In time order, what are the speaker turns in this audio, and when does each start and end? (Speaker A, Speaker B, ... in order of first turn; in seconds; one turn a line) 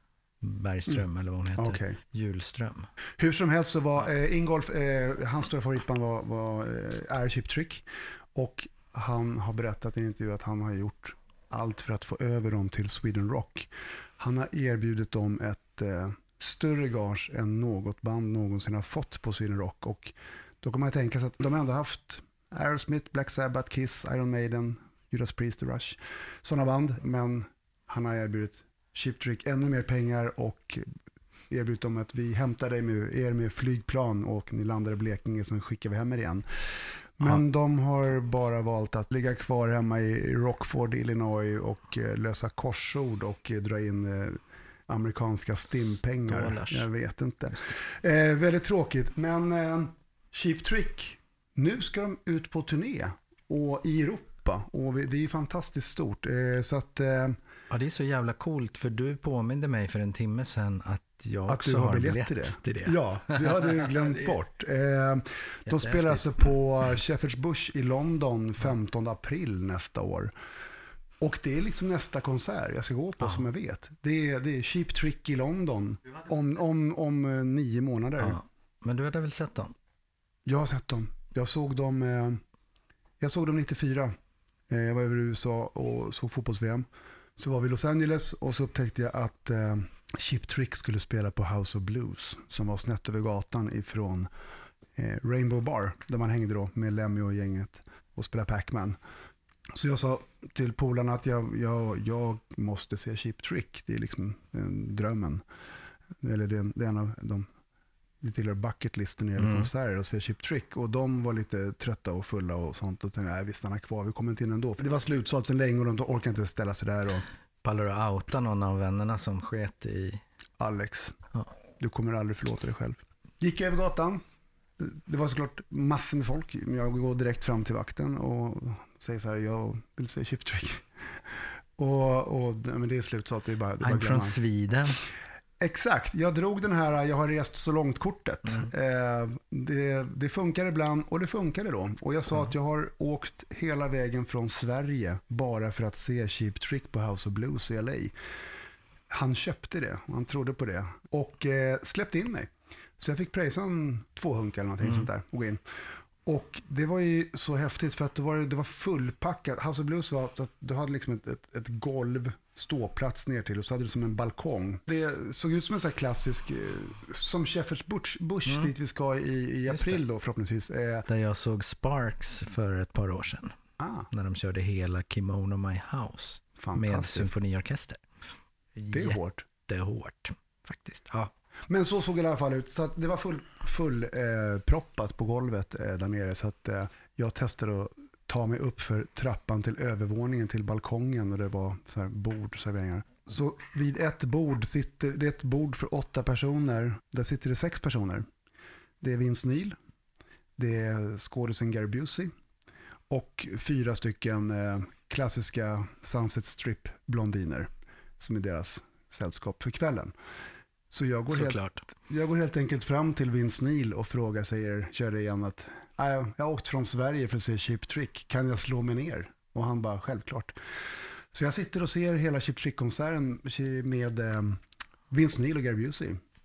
Speaker A: 0.4-2.9
Speaker B: 1.6-2.0
Speaker B: 3.2-30.9
Speaker B: 31.5-36.5
Speaker B: 37.2-57.4
Speaker A: 46.3-46.9
Speaker A: 57.7-64.3
Speaker B: 61.5-70.3
Speaker A: 65.7-66.4
Speaker B: 71.2-78.4
Speaker A: 78.2-79.7
Speaker B: 80.4-82.4
Speaker B: 83.2-84.1
Speaker B: 84.7-94.3
Speaker B: 94.9-99.0
Speaker B: 99.7-105.4
Speaker B: 106.2-107.5
Speaker B: 108.2-117.2
Speaker A: 109.4-109.7
Speaker A: 117.6-120.2
Speaker B: 120.6-121.2
Speaker B: 121.8-124.2
Speaker B: 124.8-130.9
Speaker B: 131.8-134.4
Speaker A: 133.8-135.0
Speaker B: 135.6-148.1
Speaker B: 149.1-155.6
Speaker B: 156.2-171.1
Speaker A: 168.4-168.7
Speaker A: 169.7-170.0
Speaker A: 171.1-173.5
Speaker B: 173.8-174.1
Speaker A: 174.1-178.0
Speaker B: 176.6-177.3
Speaker A: 178.8-181.3
Speaker B: 178.9-179.4
Speaker B: 181.7-198.3
Speaker B: 199.0-199.8
Speaker B: 200.6-202.3
Speaker B: 203.1-210.1
Speaker B: 210.9-220.5
Speaker A: 211.3-211.8
Speaker B: 221.3-226.2